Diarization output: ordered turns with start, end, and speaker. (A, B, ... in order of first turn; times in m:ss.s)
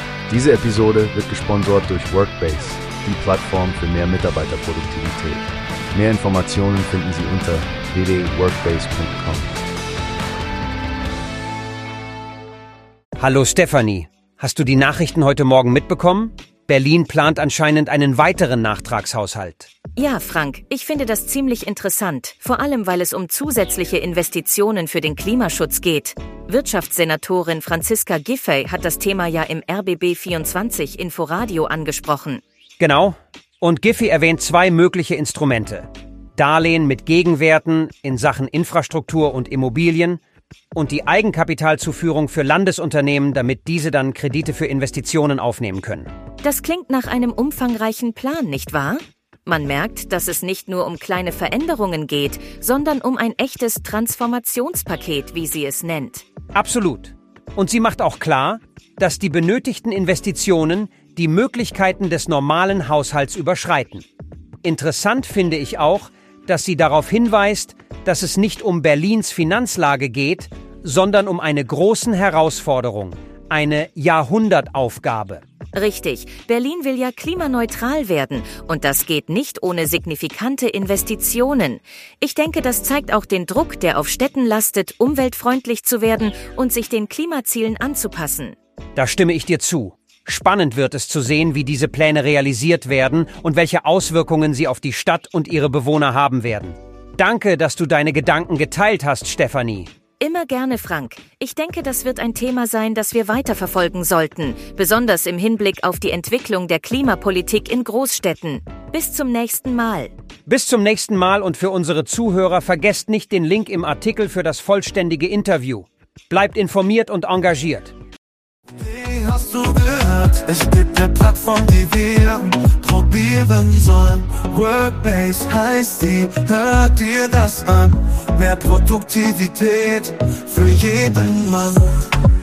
0:00.3-0:09.7 A
0:13.2-0:19.7 B
0:20.0-0:32.4 C
0:32.8-0:40.2 B
0:40.8-0:46.1 B
0:46.4-0:56.3 C
0:56.5-1:04.1 B
1:04.6-1:15.4 B
1:15.7-1:28.6 C
1:29.0-1:39.9 B
1:40.2-1:50.1 C
1:50.5-1:57.9 B
1:58.8-2:12.1 D